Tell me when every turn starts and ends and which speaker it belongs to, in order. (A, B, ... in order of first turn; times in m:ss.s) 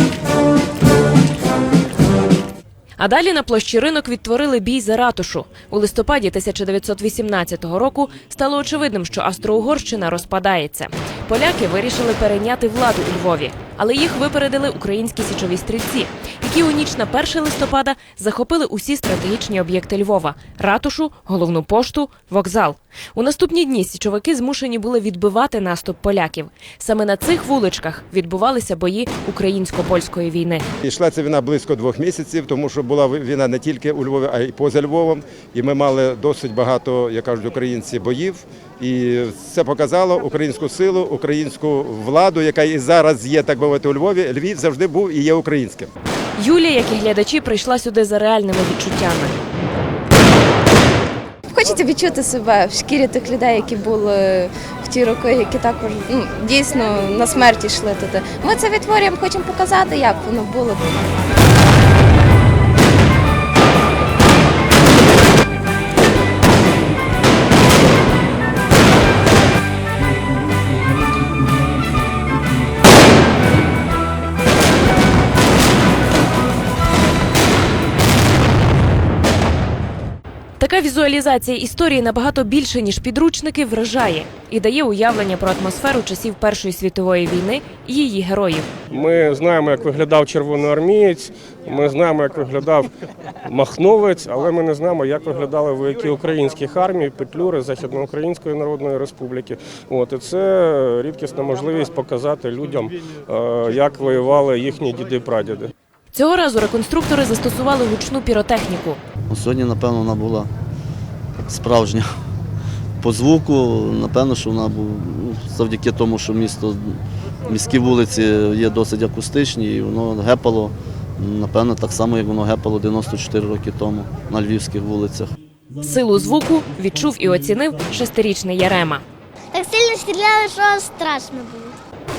0:03.0-0:30.6 A
0:30.8-0:45.9 B
0:46.4-0:49.4 A
0:51.5-1:00.9 C
1:20.6-1:28.7 A
1:28.9-1:32.9 D
1:33.5-1:45.7 D
1:46.1-1:49.0 A
1:49.3-1:50.5 E
1:51.4-1:52.1 E
1:53.0-2:05.3 E
2:05.8-2:09.0 A
2:09.5-2:11.8 F